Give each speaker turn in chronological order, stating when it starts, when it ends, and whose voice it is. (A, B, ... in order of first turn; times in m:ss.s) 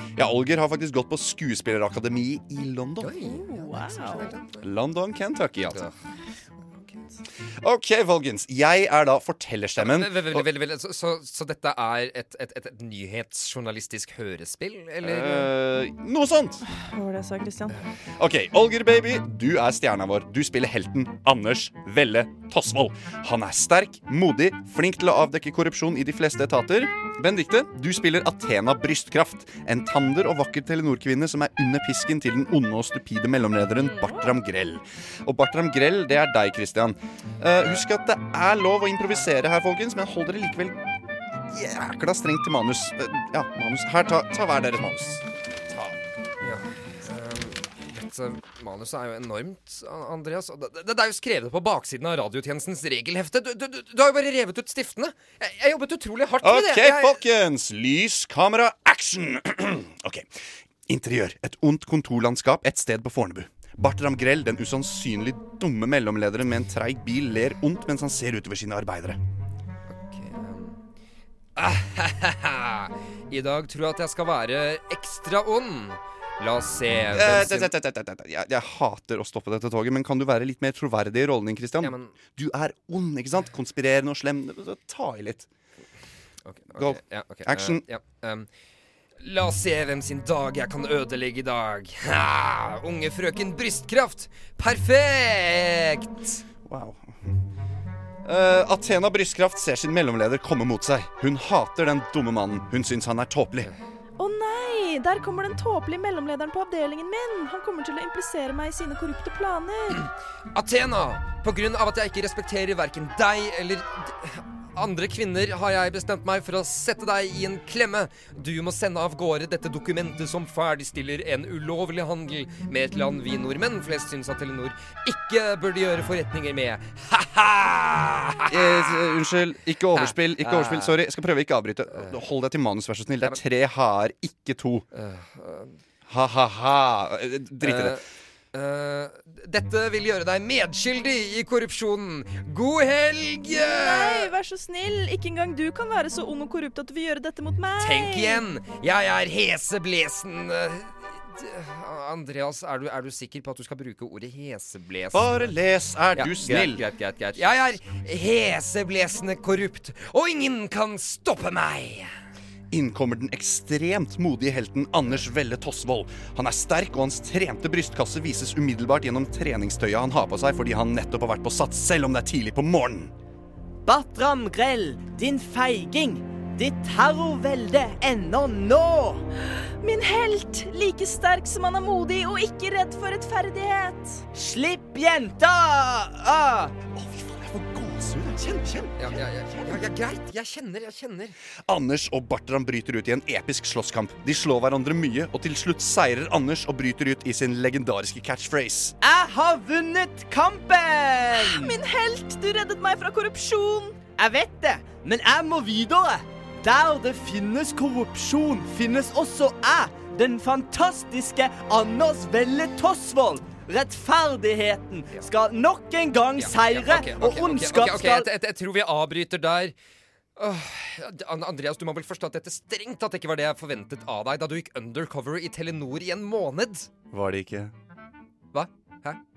0:00.2-0:03.2 A
0:03.0-0:04.7 B
0:03.2-0:04.3 C
0:04.5-0:05.8 A
0:05.7-0:05.9 B
0:07.6-0:10.5 A
0:09.8-0:15.5 B
0:15.0-0:16.6 A
0:16.7-0:17.8 C
0:18.2-0:40.8 A
0:33.8-0:34.3 C
0:37.6-0:37.8 B
0:41.5-0:45.2 A
0:45.9-0:57.2 B
0:56.4-1:00.3 A
1:00.9-1:09.2 A
1:09.9-1:10.8 B
1:11.6-1:17.7 B
1:17.1-1:25.5 A
1:21.8-1:22.1 B
1:26.4-1:28.5 B
1:26.8-1:27.8 A
1:29.2-1:36.4 B
1:36.6-1:37.1 A
1:38.2-1:43.7 A
1:44.2-1:50.1 C
1:49.9-2:09.2 B
2:08.5-2:14.8 A
2:09.9-2:11.0 B
2:11.9-2:12.2 B
2:14.9-2:15.8 B
2:16.1-2:18.0 A
2:17.6-2:24.3 B
2:23.4-2:28.4 C
2:27.8-2:35.6 B
2:35.1-2:36.8 A
2:36.1-2:42.1 B
2:42.7-2:53.1 A
2:53.8-2:59.2 D
2:59.4-3:04.2 C
3:04.3-3:06.7 D
3:06.9-3:09.8 A
3:09.0-3:11.4 B
3:11.7-3:18.9 A
3:19.0-3:21.7 D
3:21.3-3:24.0 C
3:24.2-3:38.3 D
3:36.4-3:39.7 B
3:40.4-3:46.9 B
3:47.1-3:47.7 A
3:48.5-3:49.2 B